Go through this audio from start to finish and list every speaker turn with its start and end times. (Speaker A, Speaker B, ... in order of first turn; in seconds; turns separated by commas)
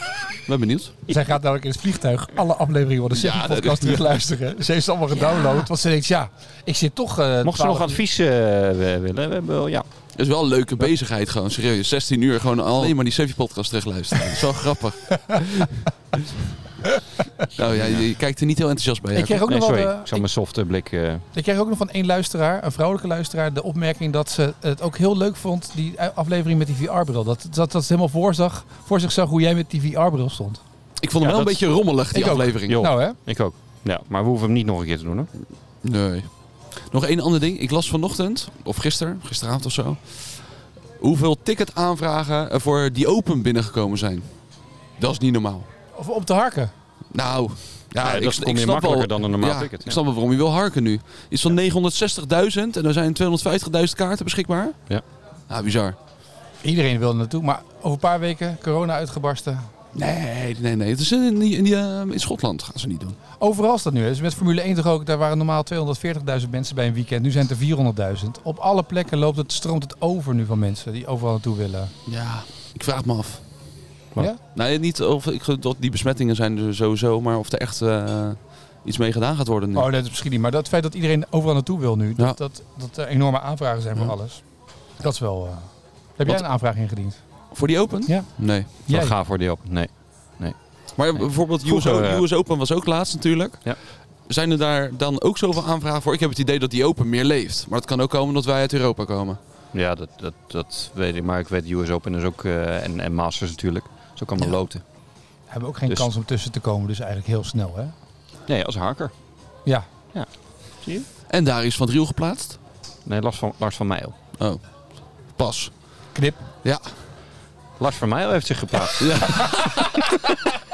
Speaker A: 0.5-0.9, Speaker B: 1.1-8.0, Speaker A: 3.1-4.1, Speaker C: 7.4-9.8, Speaker A: 10.2-16.2, Speaker A: 17.5-19.4, Speaker C: 17.6-18.1, Speaker B: 19.1-20.2, Speaker C: 19.4-21.2, Speaker B: 21.3-30.6, Speaker A: 31.0-32.8, Speaker C: 31.2-31.7, Speaker B: 32.1-33.2, Speaker C: 32.7-35.3, Speaker A: 35.8-44.3, Speaker A: 45.0-45.7, Speaker B: 45.9-46.7, Speaker A: 47.1-54.8, Speaker C: 48.0-50.0, Speaker A: 55.5-56.0, Speaker B: 56.6-59.7, Speaker A: 59.9-63.2, Speaker B: 63.4-71.9, Speaker A: 72.1-73.4, Speaker A: 74.5-79.9, Speaker B: 79.7-87.5, Speaker A: 87.5-88.7, Speaker B: 88.0-89.2, Speaker C: 88.9-90.5, Speaker A: 91.0-99.4, Speaker C: 91.1-92.2, Speaker C: 99.7-104.8, Speaker B: 105.5-107.9, Speaker C: 108.5-109.1, Speaker C: 110.1-111.1, Speaker A: 111.3-112.6, Speaker C: 113.0-114.1, Speaker A: 115.2-116.1, Speaker B: 116.1-116.4, Speaker A: 116.6-117.0, Speaker C: 117.8-119.5, Speaker A: 119.0-120.1